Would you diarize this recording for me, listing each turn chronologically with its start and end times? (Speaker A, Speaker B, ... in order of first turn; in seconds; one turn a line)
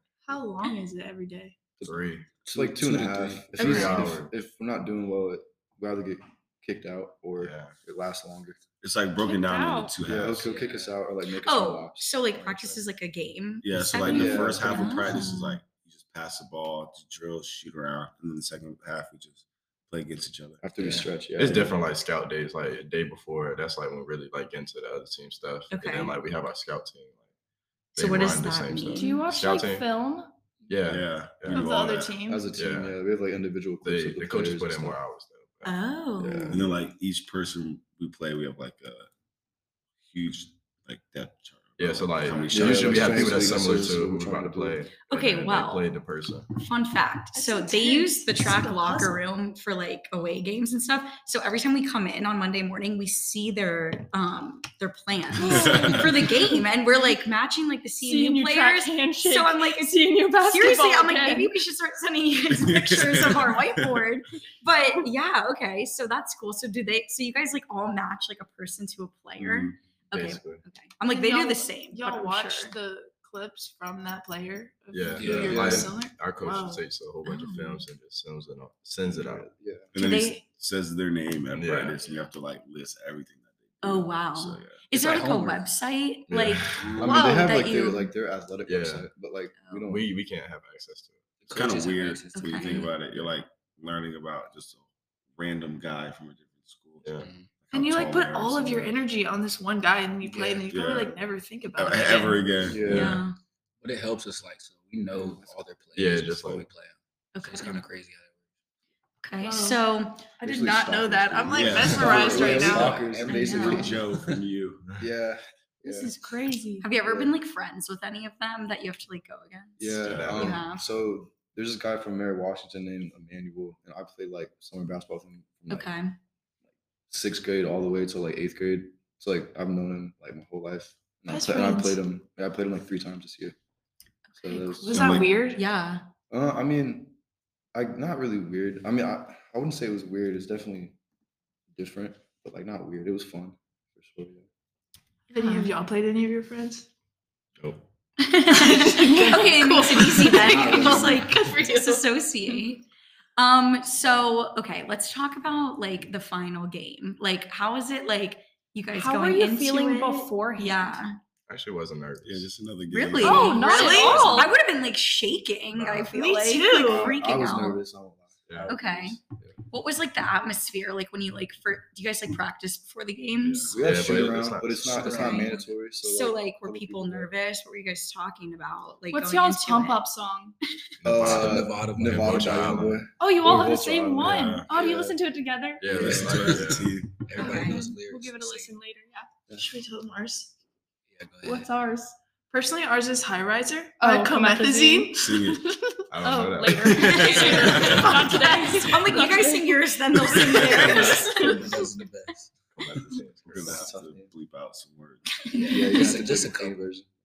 Speaker A: 0.3-1.6
Speaker B: 1.8-8.6
Speaker C: 1.8-2.3
Speaker D: 2.5-3.5
Speaker C: 3.6-4.3
Speaker E: 3.6-4.1
Speaker C: 7.4-7.8
Speaker F: 8.8-10.5
Speaker G: 9.2-10.0
Speaker B: 10.0-12.8
Speaker D: 10.4-11.0
Speaker E: 11.4-15.6
Speaker F: 13.6-20.6
Speaker B: 14.0-15.3
Speaker B: 20.6-21.8
Speaker D: 20.8-21.1
Speaker C: 21.4-27.2
Speaker E: 25.7-26.1
Speaker E: 27.9-29.2
Speaker C: 28.0-29.9
Speaker G: 28.9-30.3
Speaker C: 30.7-31.7
Speaker F: 30.9-32.2
Speaker A: 31.5-32.5
Speaker B: 32.3-35.0
Speaker C: 32.5-33.0
Speaker C: 33.8-35.7
Speaker E: 35.6-36.5
Speaker B: 36.2-36.7
Speaker C: 36.3-36.7
Speaker F: 36.5-39.1
Speaker F: 40.1-43.9
Speaker C: 41.8-46.5
Speaker B: 42.5-44.8
Speaker E: 45.1-45.9
Speaker E: 46.6-72.8
Speaker A: 47.4-49.2
Speaker F: 55.4-56.4
Speaker G: 55.5-56.1
Speaker G: 58.0-61.5
Speaker F: 62.5-64.1
Speaker F: 69.4-69.8
Speaker C: 70.1-70.6
Speaker A: 71.0-76.8
Speaker C: 74.9-79.5
Speaker D: 75.2-75.9
Speaker B: 75.4-75.9
Speaker E: 77.2-77.9
Speaker B: 79.1-79.9
Speaker F: 79.9-84.8
Speaker E: 80.0-80.4
Speaker C: 81.5-82.0
Speaker E: 83.8-88.1
Speaker D: 84.9-85.7
Speaker C: 86.3-86.9
Speaker D: 86.8-87.2
Speaker B: 87.0-90.1
Speaker A: 87.1-87.5
Speaker C: 88.7-89.1
Speaker C: 89.9-91.2
Speaker D: 91.4-93.3
Speaker F: 91.5-94.8
Speaker E: 92.3-92.9
Speaker F: 95.3-99.0
Speaker D: 97.2-97.6
Speaker A: 97.7-102.5
Speaker D: 100.2-100.7
Speaker F: 100.7-101.2
Speaker F: 101.8-103.2
Speaker B: 102.7-103.2
Speaker E: 102.9-103.3
Speaker D: 103.8-108.3
Speaker B: 105.1-105.6
Speaker C: 106.0-106.7
Speaker E: 107.3-107.8
Speaker E: 109.2-111.1
Speaker A: 109.4-109.8
Speaker B: 110.4-114.2
Speaker A: 110.5-113.1
Speaker F: 111.5-112.6
Speaker D: 112.0-114.4
Speaker E: 113.3-114.0
Speaker F: 113.5-114.9
Speaker B: 115.0-116.2
Speaker G: 115.8-116.9
Speaker E: 116.8-120.8
Speaker B: 117.0-117.3
Speaker B: 119.8-125.9
Speaker C: 120.0-120.6
Speaker E: 125.7-126.2
Speaker B: 127.1-133.6
Speaker A: 131.3-132.0
Speaker B: 134.4-135.3
Speaker A: 134.6-135.6
Speaker F: 134.9-135.3
Speaker E: 135.5-136.1
Speaker B: 136.3-137.2
Speaker B: 137.7-141.0
Speaker B: 141.8-144.5
Speaker A: 145.3-146.9
Speaker E: 145.4-145.7
Speaker C: 147.6-147.9
Speaker E: 148.2-152.8
Speaker A: 148.5-152.1
Speaker G: 149.1-149.5
Speaker D: 150.4-151.4
Speaker E: 153.4-161.2
Speaker G: 158.9-160.9
Speaker C: 161.5-162.5
Speaker F: 162.2-163.6
Speaker E: 162.9-167.8
Speaker G: 163.2-164.6
Speaker A: 163.5-164.4
Speaker C: 165.8-166.1
Speaker A: 166.1-167.2
Speaker B: 166.7-169.6
Speaker C: 168.5-168.8
Speaker E: 168.7-169.2
Speaker E: 169.7-173.7
Speaker C: 173.4-175.4
Speaker B: 173.7-177.3
Speaker D: 174.8-175.7
Speaker E: 175.1-180.0
Speaker G: 179.1-180.6
Speaker C: 181.0-183.0
Speaker B: 181.1-185.2
Speaker D: 181.2-182.9
Speaker G: 183.2-186.0
Speaker F: 184.2-184.7
Speaker C: 185.8-186.9
Speaker F: 185.9-187.2
Speaker B: 185.9-186.5
Speaker D: 186.2-188.8
Speaker E: 187.4-187.9
Speaker G: 187.4-189.3
Speaker A: 189.5-190.6
Speaker D: 191.1-191.7
Speaker G: 191.4-192.2
Speaker A: 192.5-195.5
Speaker G: 194.0-195.3
Speaker F: 195.2-195.6
Speaker C: 196.1-198.3
Speaker G: 196.2-199.9
Speaker F: 196.7-198.1
Speaker E: 197.1-201.6
Speaker F: 200.2-200.9
Speaker D: 200.7-202.5
Speaker C: 200.8-201.2
Speaker G: 201.2-201.5
Speaker C: 202.8-203.9
Speaker F: 203.5-205.3
Speaker B: 203.6-204.3
Speaker E: 205.5-206.1
Speaker D: 205.5-206.8
Speaker B: 205.7-207.1